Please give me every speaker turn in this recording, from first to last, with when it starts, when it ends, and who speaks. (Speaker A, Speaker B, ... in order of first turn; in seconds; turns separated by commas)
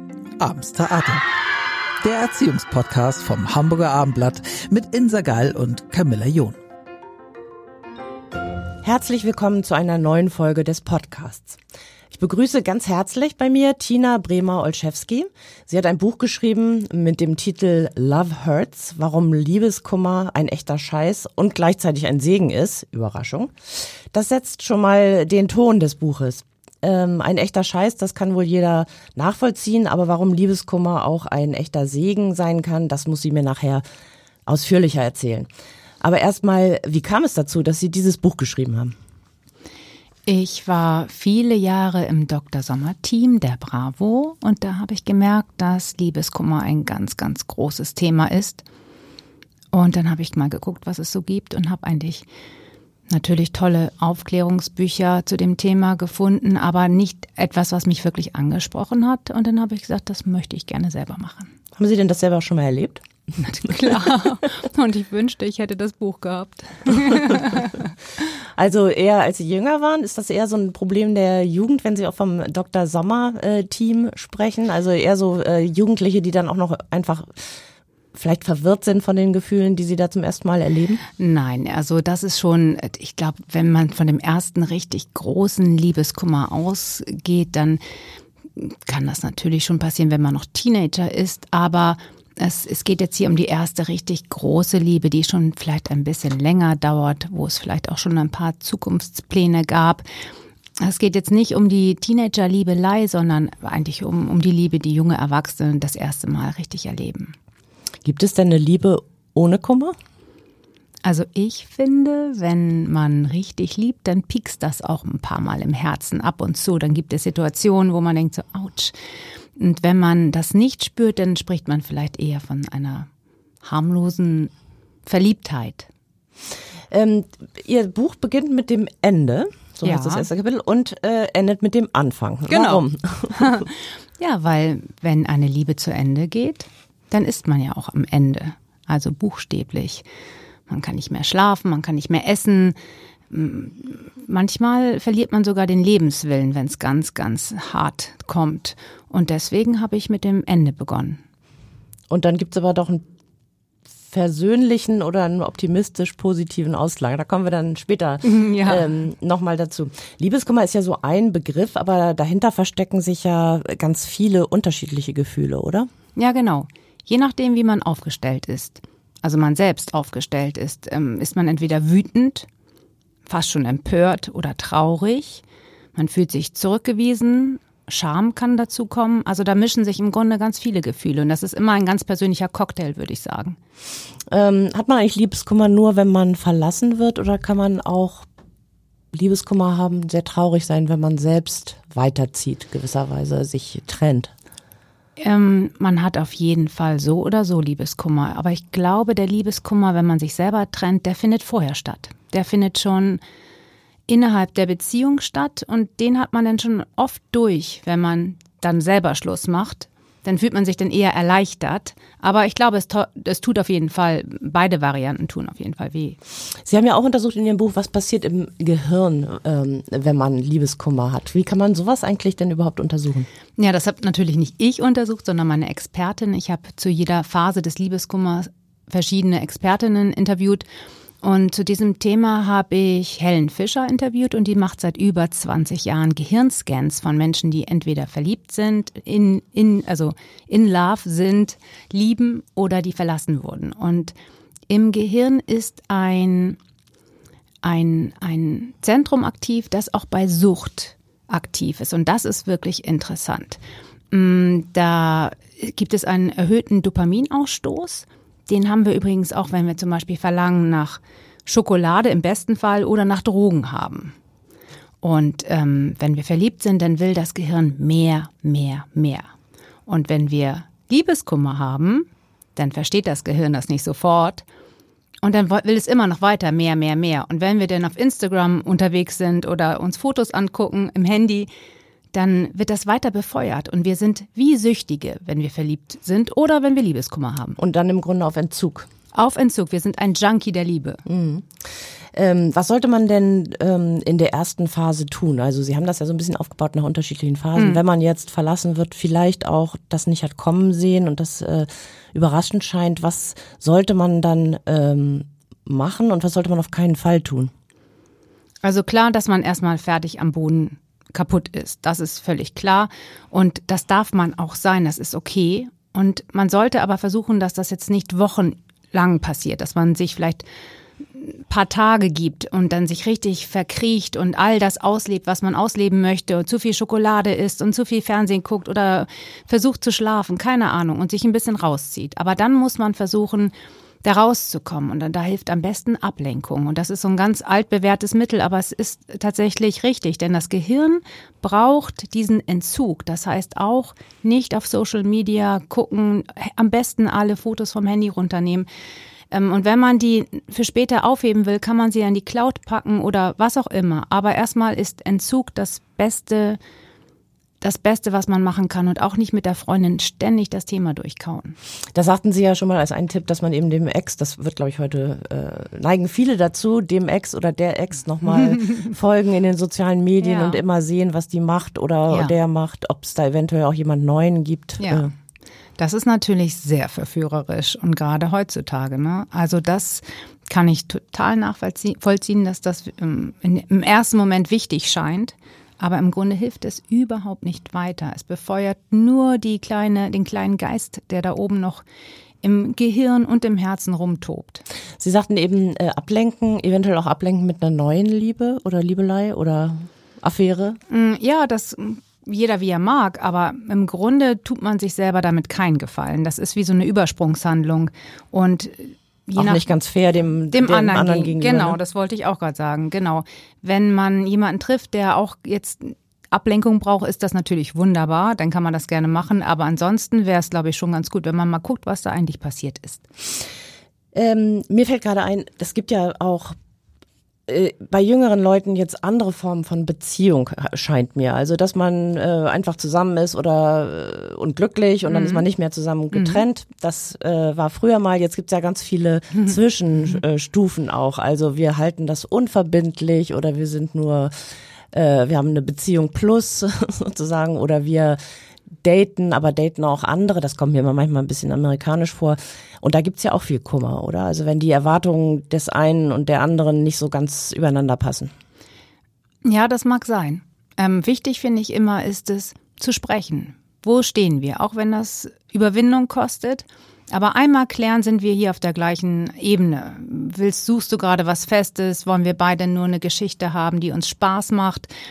Speaker A: 0.4-1.2, Speaker A: 2.0-6.6, Speaker B: 8.8-11.6, Speaker B: 12.1-33.8, Speaker B: 34.5-35.5, Speaker B: 36.0-39.0, Speaker C: 40.3-48.6, Speaker C: 49.7-52.2, Speaker C: 53.1-61.5, Speaker B: 61.8-63.0, Speaker C: 63.4-67.9, Speaker B: 68.6-77.6, Speaker B: 78.1-81.0, Speaker C: 81.2-87.8, Speaker C: 88.6-100.0, Speaker C: 100.8-107.3, Speaker B: 108.0-110.0, Speaker C: 111.0-119.0, Speaker C: 119.6-123.1, Speaker C: 123.6-124.5, Speaker C: 125.1-125.9, Speaker B: 126.9-133.7, Speaker C: 129.8-130.3, Speaker C: 132.5-132.8, Speaker C: 133.4-140.1, Speaker C: 140.7-142.8, Speaker C: 143.3-151.2, Speaker B: 152.1-153.0, Speaker B: 154.1-165.9, Speaker C: 158.2-158.9, Speaker C: 166.2-172.5, Speaker C: 173.3-175.4, Speaker C: 175.9-183.6, Speaker B: 184.3-188.3, Speaker B: 189.1-194.3, Speaker C: 195.2-203.2, Speaker C: 204.1-216.2, Speaker B: 216.6-223.3, Speaker C: 223.6-230.7, Speaker C: 231.2-244.1, Speaker C: 244.7-246.6, Speaker C: 247.6-253.6, Speaker C: 254.1-264.1, Speaker C: 265.0-269.3, Speaker C: 269.9-274.4, Speaker C: 275.2-281.5, Speaker C: 282.1-287.6, Speaker B: 287.6-288.9, Speaker C: 289.1-291.0, Speaker B: 291.1-307.5, Speaker C: 308.6-320.4, Speaker C: 321.1-348.7, Speaker C: 349.3-356.6, Speaker C: 357.6-361.6, Speaker B: 361.9-375.1, Speaker C: 370.2-370.6, Speaker C: 372.1-372.3, Speaker C: 374.8-375.1, Speaker C: 375.8-391.8, Speaker C: 392.4-394.6, Speaker B: 395.0-400.8, Speaker C: 400.9-409.6, Speaker B: 409.4-411.8, Speaker C: 410.5-423.1, Speaker B: 424.1-426.6, Speaker B: 427.5-448.2, Speaker C: 435.1-435.4, Speaker C: 436.1-436.4, Speaker B: 448.8-458.3, Speaker C: 459.4-474.9